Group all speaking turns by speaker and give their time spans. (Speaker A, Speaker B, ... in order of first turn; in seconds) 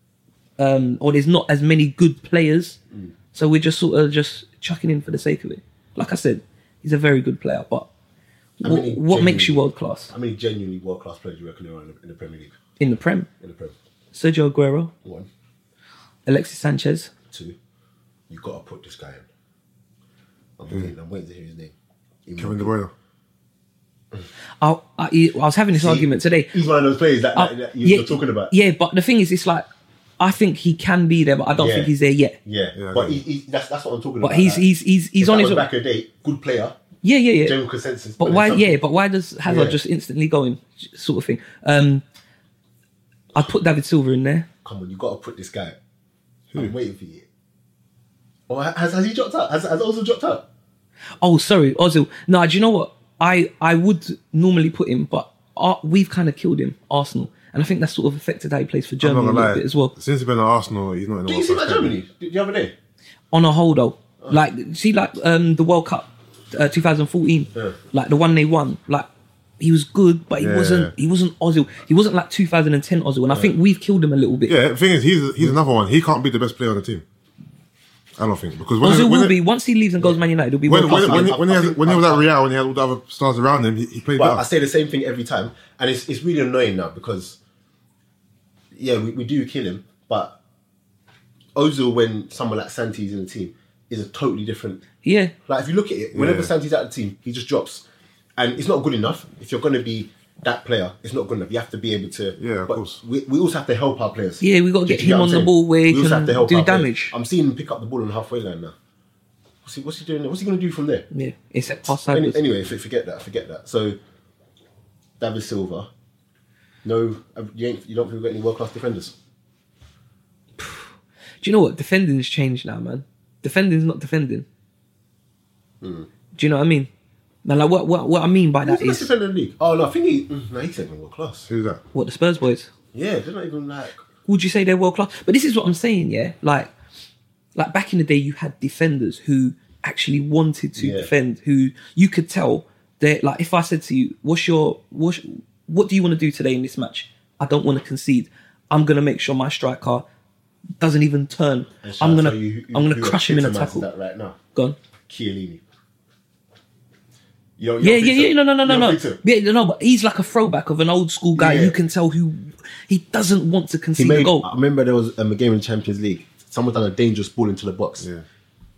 Speaker A: 0.6-2.8, 3.3-7.9, 8.6-10.1, 12.8-13.3, 14.1-14.9, 16.3-17.1, 24.6-26.5, 27.4-29.6, 30.2-32.4, 34.2-35.7, 37.0-37.6, 38.2-42.0, 43.3-44.5, 51.2-59.9, 63.3-69.1, 69.6-74.5, 78.8-81.4, 95.0-95.3, 104.4-107.1, 111.1-112.4, 120.6-120.9, 121.4-124.5, 126.3-126.9, 127.5-129.1, 131.9-132.7, 134.3-136.7, 137.6-150.1, 150.8-153.9, 157.8-164.4
Speaker B: 8.6-12.5, 13.4-13.7, 15.0-15.3, 18.3-19.3, 20.6-21.7, 22.3-22.7, 25.7-28.5, 31.6-31.9, 32.5-34.6, 35.2-36.8, 37.5-38.8, 39.5-39.8, 44.6-45.8, 46.5-47.2, 48.5-50.5, 61.3-62.7, 73.3-73.5, 80.8-82.2, 84.2-87.4, 88.7-90.4, 91.5-94.8, 95.5-97.8, 98.4-108.7, 109.6-111.0, 112.1-114.0, 115.2-115.9, 116.8-119.1, 125.8-126.1, 128.6-131.5, 132.9-134.0, 140.8-141.1, 151.8-154.4, 155.1-155.6, 157.6-159.2, 161.3-161.8, 163.9-168.1
Speaker C: 22.4-22.9, 32.7-33.2, 59.0-62.0, 70.4-70.9, 74.5-77.0, 78.2-79.4, 80.7-84.4, 96.1-96.5, 102.4-103.0, 131.5-131.8, 168.0-168.2